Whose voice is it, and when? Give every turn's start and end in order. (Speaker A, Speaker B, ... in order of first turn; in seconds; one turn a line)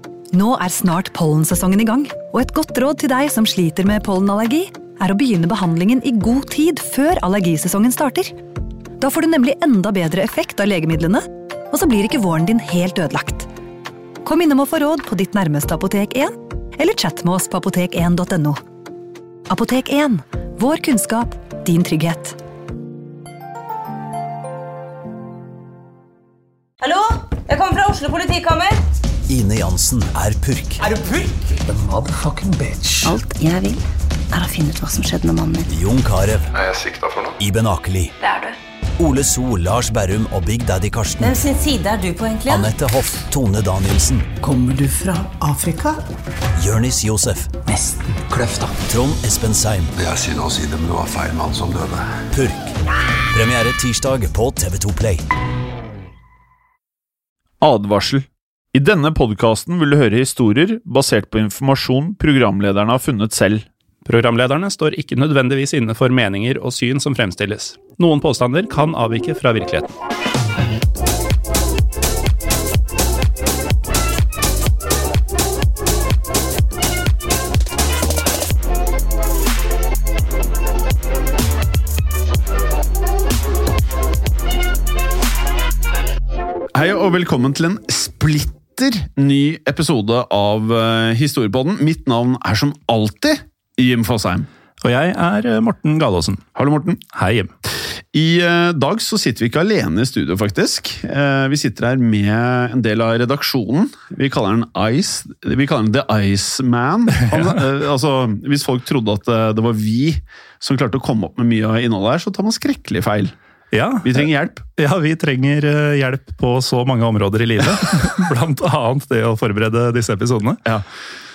Speaker A: 0.3-8.3
Speaker A: 9.0-13.5
Speaker A: 14.2-18.6
Speaker A: 19.5-22.4
Speaker B: 26.8-28.8
Speaker C: 29.3-31.0
Speaker D: 32.1-32.8
Speaker E: 33.0-33.8
Speaker E: 34.3-35.7
Speaker C: 35.7-36.5
Speaker F: 36.5-37.4
Speaker C: 37.4-38.1
Speaker C: 39.0-41.4
Speaker B: 41.2-42.7
Speaker C: 42.5-44.4
Speaker D: 44.5-45.9
Speaker C: 46.6-47.6
Speaker D: 47.8-48.7
Speaker C: 48.8-49.9
Speaker F: 50.0-52.1
Speaker C: 52.3-52.7
Speaker C: 53.3-55.2
Speaker G: 57.6-63.7
Speaker H: 64.1-69.9
Speaker G: 86.8-94.5
Speaker H: 94.8-96.4
Speaker G: 96.6-97.0
Speaker H: 97.1-97.5
Speaker G: 98.1-113.3
Speaker H: 107.3-107.6
Speaker H: 113.7-120.6
Speaker G: 114.0-114.6